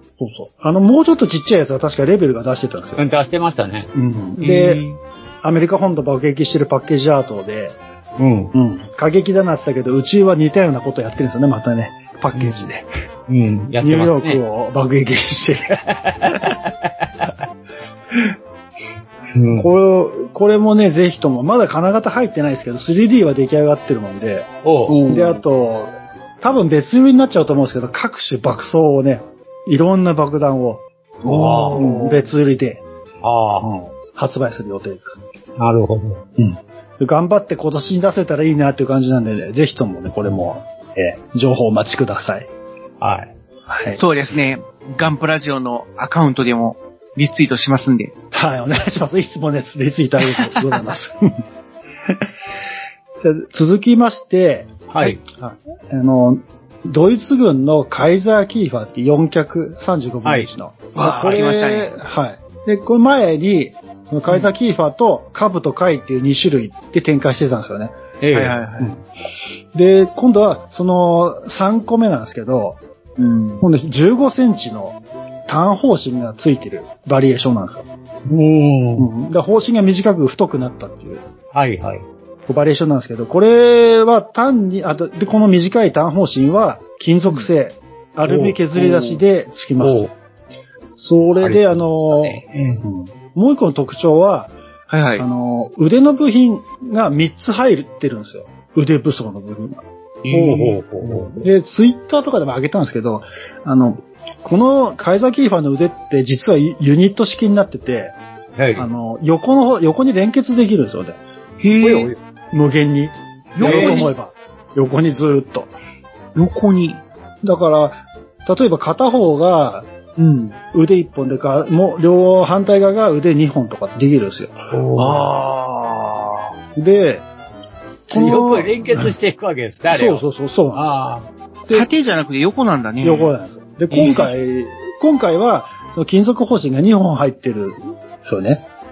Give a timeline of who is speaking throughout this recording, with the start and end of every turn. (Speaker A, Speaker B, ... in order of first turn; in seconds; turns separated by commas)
Speaker A: 0.2-3.0, Speaker B: 3.0-3.9, Speaker A: 3.9-4.8, Speaker C: 4.4-5.0, Speaker A: 5.4-7.8, Speaker B: 8.2-8.5, Speaker A: 8.5-12.9, Speaker B: 12.3-12.6, Speaker B: 13.3-14.4, Speaker A: 13.8-16.4, Speaker B: 16.0-16.6, Speaker B: 19.4-19.7, Speaker A: 19.6-24.5, Speaker B: 24.6-25.0, Speaker C: 24.9-25.4, Speaker A: 25.1-30.8, Speaker C: 31.2-32.2, Speaker B: 31.3-31.9, Speaker A: 31.7-32.8, Speaker B: 33.2-33.7, Speaker A: 33.6-35.2, Speaker B: 35.6-36.2, Speaker A: 36.4-42.5, Speaker B: 43.0-43.3, Speaker A: 43.7-44.0, Speaker C: 44.0-48.1, Speaker A: 48.3-51.4, Speaker A: 53.2-68.0, Speaker B: 54.9-55.2, Speaker B: 60.2-61.6, Speaker C: 61.0-62.0, Speaker B: 68.2-68.6, Speaker C: 68.3-68.9, Speaker A: 69.7-72.8, Speaker C: 73.2-73.6, Speaker A: 73.6-77.9, Speaker B: 78.3-79.1, Speaker A: 79.0-81.2, Speaker B: 81.5-82.0, Speaker A: 82.5-90.1, Speaker B: 88.2-89.2, Speaker B: 89.8-90.1, Speaker A: 91.0-94.5, Speaker B: 91.4-92.8, Speaker C: 94.9-95.2, Speaker A: 95.2-108.2, Speaker C: 100.2-100.8, Speaker B: 100.3-101.4, Speaker B: 108.6-108.9, Speaker A: 108.8-111.2, Speaker C: 111.6-112.1, Speaker B: 111.8-112.2, Speaker A: 112.5-115.7, Speaker C: 113.5-114.1, Speaker B: 113.6-114.0, Speaker C: 116.4-117.0, Speaker A: 117.4-119.9, Speaker C: 120.2-120.6, Speaker A: 120.7-124.6, Speaker B: 124.7-125.3, Speaker C: 125.0-126.4, Speaker A: 126.8-127.2, Speaker A: 128.1-129.1, Speaker B: 128.1-131.2, Speaker A: 129.9-130.9, Speaker C: 131.7-133.3, Speaker A: 133.0-138.7, Speaker C: 133.9-134.3